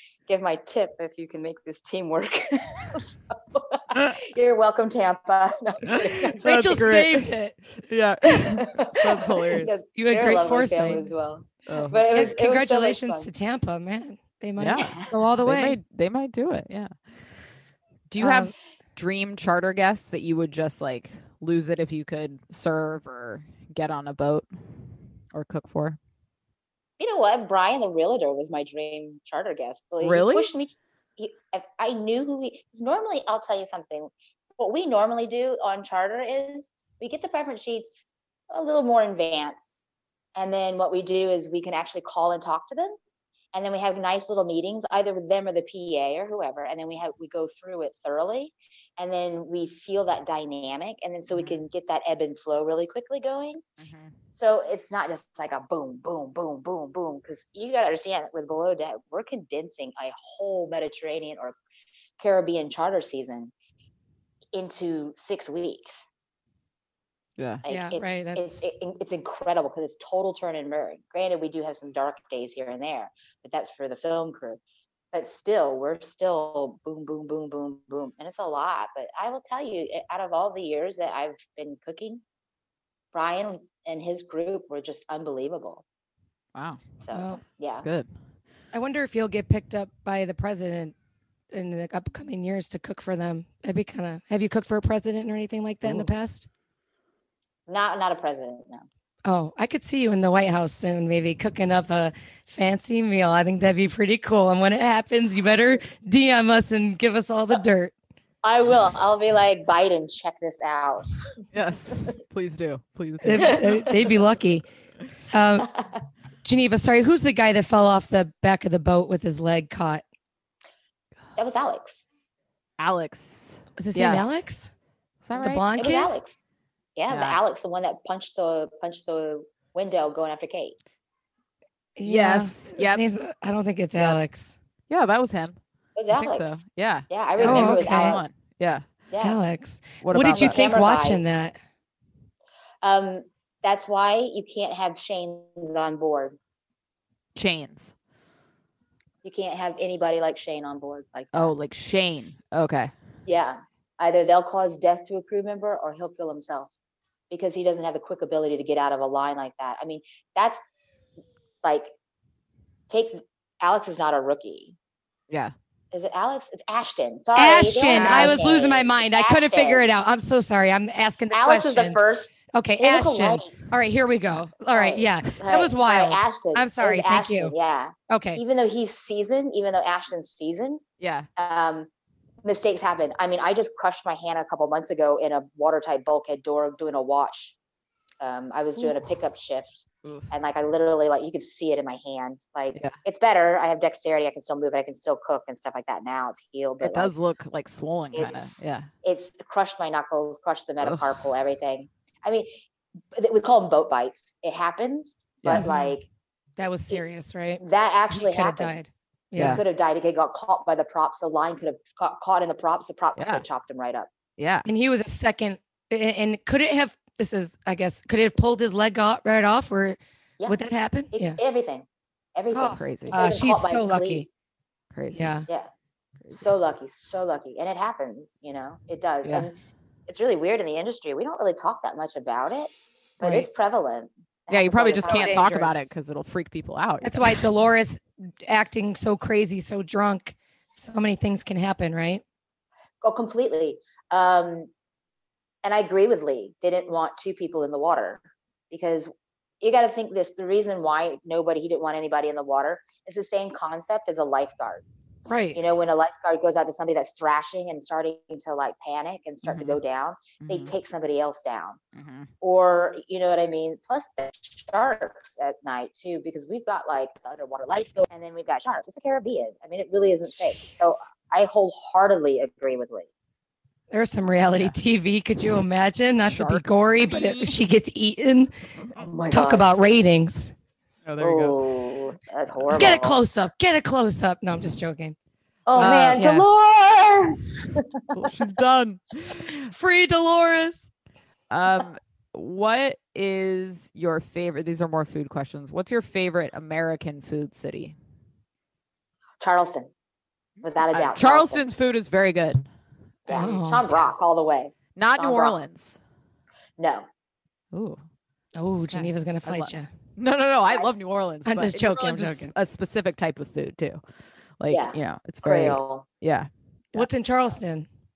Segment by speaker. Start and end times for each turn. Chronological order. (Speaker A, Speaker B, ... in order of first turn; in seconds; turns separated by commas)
Speaker A: 0.3-6.4, Speaker B: 5.9-9.7, Speaker C: 6.4-7.6, Speaker A: 8.4-13.3, Speaker C: 9.9-11.0, Speaker B: 11.7-12.3, Speaker C: 12.0-15.8, Speaker B: 14.6-16.9, Speaker A: 14.8-15.1, Speaker B: 18.1-24.5, Speaker C: 18.2-18.5, Speaker B: 25.3-26.0, Speaker A: 27.0-39.8, Speaker B: 30.0-30.5, Speaker A: 40.3-43.0, Speaker A: 43.5-53.6, Speaker B: 51.3-51.6, Speaker B: 53.8-54.1, Speaker A: 54.3-61.5, Speaker A: 62.2-63.5, Speaker A: 64.5-66.1, Speaker B: 67.4-67.6, Speaker A: 67.6-74.6, Speaker C: 67.7-68.6, Speaker A: 75.1-82.2, Speaker A: 83.1-85.8, Speaker B: 86.5-86.8, Speaker A: 87.0-87.9, Speaker C: 87.1-87.4, Speaker B: 87.8-88.1, Speaker C: 88.7-90.9, Speaker C: 91.5-96.5, Speaker A: 97.7-98.9, Speaker C: 99.2-107.9, Speaker A: 108.4-111.2, Speaker B: 111.5-114.0, Speaker C: 113.2-114.7, Speaker A: 113.4-113.9, Speaker C: 115.3-115.7, Speaker C: 116.4-120.0, Speaker A: 121.4-122.0, Speaker B: 122.8-124.4, Speaker C: 123.8-124.7, Speaker B: 125.2-125.7, Speaker C: 125.3-126.1, Speaker A: 125.8-126.4, Speaker A: 127.0-130.8, Speaker B: 127.1-127.4, Speaker C: 131.9-134.5, Speaker B: 132.0-133.0, Speaker B: 134.9-135.6, Speaker A: 135.9-136.6, Speaker B: 136.1-138.8, Speaker A: 137.1-138.2, Speaker C: 137.4-138.2, Speaker A: 139.1-139.4, Speaker C: 139.2-141.6, Speaker B: 140.0-140.7, Speaker A: 140.3-141.2, Speaker A: 142.8-146.4, Speaker B: 147.3-147.9, Speaker A: 149.2-151.5, Speaker B: 151.3-152.9, Speaker A: 153.2-156.7, Speaker A: 157.3-160.6, Speaker A: 161.6-161.9, Speaker A: 162.9-164.7, Speaker A: 165.9-169.9, Speaker C: 167.3-172.0, Speaker B: 167.9-168.6, Speaker A: 171.3-173.5, Speaker C: 172.5-177.5, Speaker A: 174.7-180.8, Speaker C: 178.1-178.4, Speaker B: 181.0-181.3, Speaker A: 181.3-181.9, Speaker A: 182.4-187.6, Speaker A: 188.2-197.1, Speaker B: 196.8-198.9, Speaker A: 198.1-202.5, Speaker B: 200.8-201.2, Speaker A: 203.1-206.1, Speaker C: 205.5-206.0, Speaker C: 206.6-209.6, Speaker A: 207.6-214.1, Speaker B: 209.4-209.6, Speaker B: 213.2-213.4, Speaker B: 214.4-214.7, Speaker C: 214.6-221.4, Speaker A: 221.1-224.2, Speaker C: 222.5-224.3, Speaker B: 222.7-223.2, Speaker B: 224.9-225.3, Speaker C: 225.1-225.5, Speaker A: 226.3-229.5, Speaker B: 229.2-229.5, Speaker A: 230.1-235.6, Speaker C: 233.2-233.5, Speaker B: 234.5-237.4, Speaker C: 234.9-235.9, Speaker C: 237.0-242.2, Speaker A: 243.0-244.7, Speaker A: 245.6-254.8, Speaker C: 255.3-255.6, Speaker A: 255.5-261.8, Speaker B: 259.4-259.8, Speaker B: 260.4-260.7, Speaker B: 261.9-262.3, Speaker A: 262.4-273.1, Speaker C: 273.9-278.5, Speaker B: 276.2-277.6, Speaker A: 278.9-279.7, Speaker C: 279.3-280.5, Speaker B: 281.0-281.6, Speaker A: 281.2-283.2, Speaker C: 282.7-285.1, Speaker A: 285.7-287.8, Speaker B: 285.8-286.2, Speaker C: 285.8-286.4, Speaker B: 288.1-289.7, Speaker C: 289.7-290.9, Speaker B: 291.5-297.9, Speaker A: 299.4-299.9, Speaker A: 300.6-301.6, Speaker B: 300.9-302.6, Speaker A: 303.3-305.6, Speaker C: 303.3-303.8, Speaker B: 304.9-306.0, Speaker A: 306.8-307.1, Speaker B: 307.7-308.0, Speaker C: 308.6-309.9, Speaker B: 308.9-314.0, Speaker C: 311.4-312.5, Speaker B: 314.6-317.1, Speaker A: 314.7-316.1, Speaker C: 316.9-317.9